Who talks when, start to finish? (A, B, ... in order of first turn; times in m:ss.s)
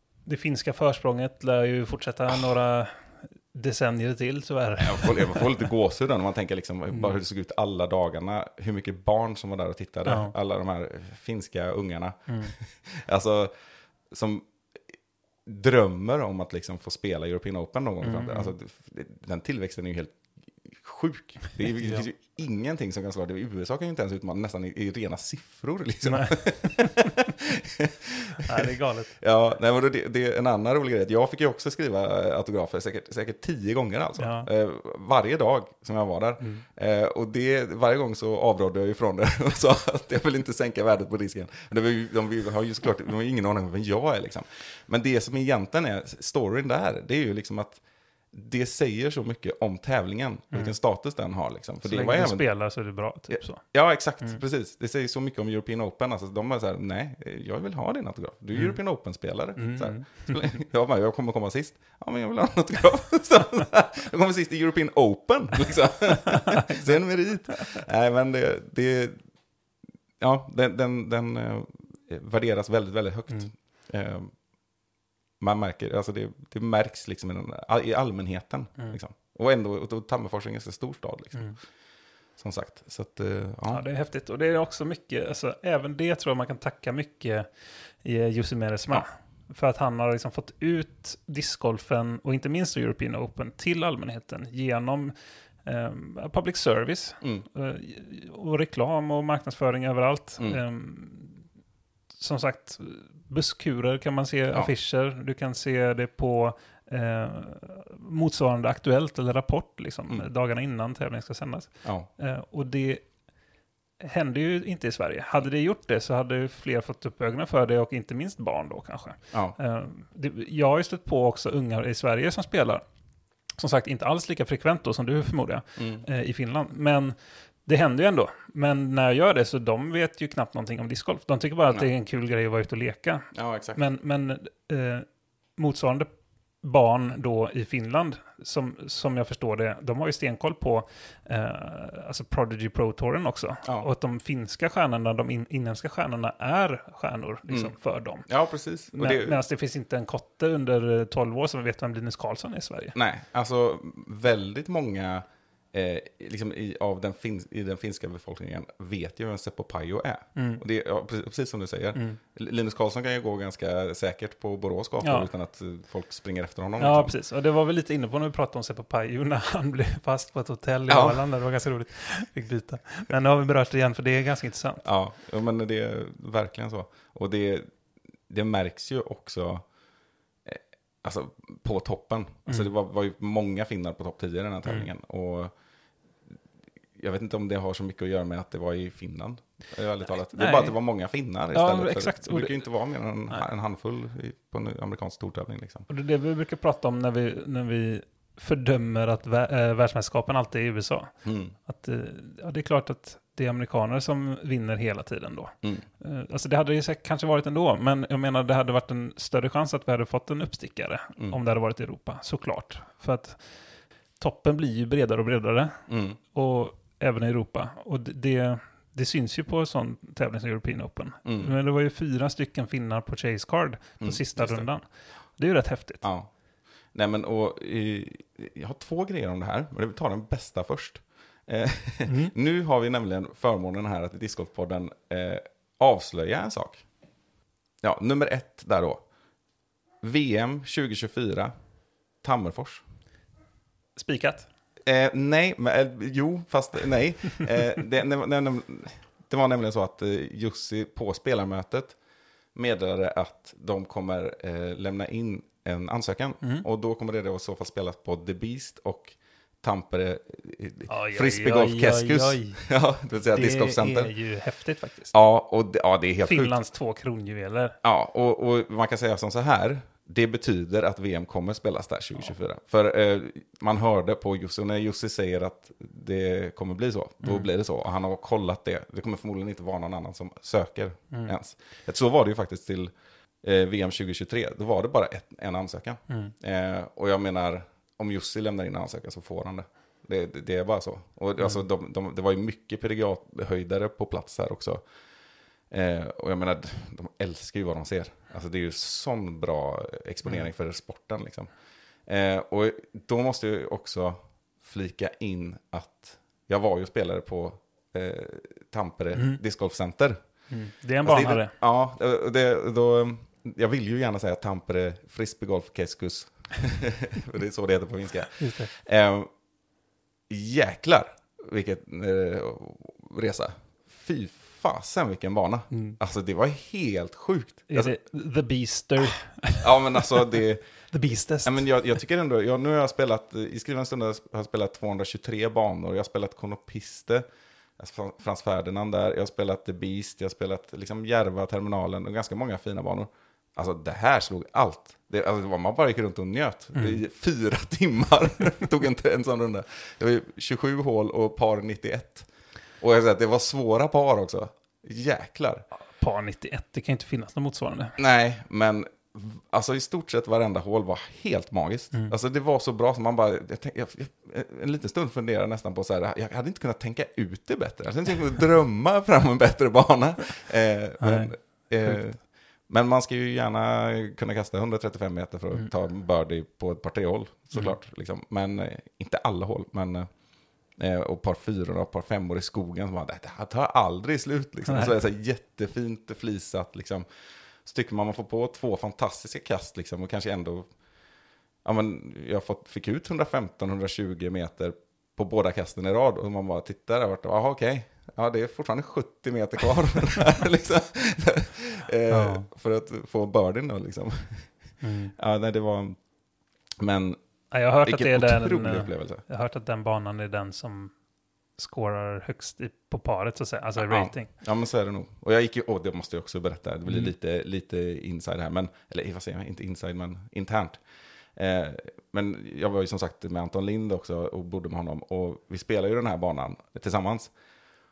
0:00.2-0:05.5 A
0:04.8-0:13.5 B
0:10.0-0:10.3 A
0:12.3-0:12.5 A
0:14.1-0:14.5 B
0:15.4-0:47.8 B
0:18.0-0:18.5 A
0:21.7-0:22.1 A
0:26.0-0:26.7 A
0:28.4-0:29.2 A
0:34.2-0:34.5 A
0:36.4-0:36.6 A
0:48.3-0:52.6 B
0:51.8-0:54.4 A
0:53.3-1:09.3 B
0:58.5-0:58.8 A
0:59.5-1:00.6 A
1:06.2-1:07.8 A
1:10.2-1:14.4 B
1:15.4-1:21.7 B
1:22.4-1:23.8 B
1:23.7-1:41.4 A
1:37.2-1:37.4 B
1:42.1-1:53.2 A
1:51.8-1:52.1 B
1:54.0-2:02.8 A
2:03.6-2:16.1 A
2:05.8-2:06.0 B
2:13.3-2:13.8 B
2:16.6-2:28.3 A
2:27.5-2:29.4 B
2:28.9-2:32.9 A
2:32.9-2:47.2 B
2:40.3-2:40.6 A
2:41.9-2:42.2 A
2:45.0-2:45.3 A
2:46.8-2:54.8 A
2:50.9-2:51.2 B
2:54.8-2:57.7 B
2:58.3-2:59.7 B
3:00.4-3:05.5 B
3:06.9-3:15.9 B
3:10.3-3:10.8 A
3:11.5-3:13.5 A
3:15.9-3:46.1 A
3:21.2-3:21.5 B
3:35.9-3:36.2 B
3:41.2-3:41.6 B
3:44.0-3:45.0 B
3:46.0-3:46.3 B
3:46.9-3:56.8 B
3:52.0-3:52.3 A
3:57.8-3:59.0 B
4:00.0-4:01.5 B
4:02.2-4:02.8 B
4:04.0-4:04.5 A
4:04.8-4:12.0 B
4:12.5-4:24.2 B
4:20.9-4:22.6 A
4:23.2-4:25.1 A
4:25.1-4:26.6 B
4:26.2-4:27.8 A
4:27.8-4:54.8 B
4:46.1-4:46.3 A
4:55.7-5:01.5 B
5:02.0-5:10.3 B
5:09.1-5:09.4 A
5:10.5-5:11.5 A
5:11.0-5:19.3 B
5:18.4-5:18.7 A
5:20.3-5:27.9 B
5:25.7-5:26.0 A
5:27.7-5:30.1 A
5:29.6-5:30.7 B
5:30.9-5:31.6 A
5:31.4-5:37.2 B
5:37.8-5:52.3 B
5:46.7-5:47.0 A
5:52.8-5:55.6 B
5:55.9-5:58.0 A
5:58.0-6:20.1 B
6:11.0-6:12.0 A
6:20.7-6:27.0 B
6:24.7-6:25.0 A
6:27.6-6:30.7 B
6:31.6-6:46.0 B
6:42.1-6:42.5 A
6:44.8-6:45.1 A
6:46.8-6:49.2 B
6:47.5-6:51.0 A
6:51.5-6:54.3 A
6:53.8-7:00.8 B
6:56.8-6:57.1 A
7:01.3-7:07.3 B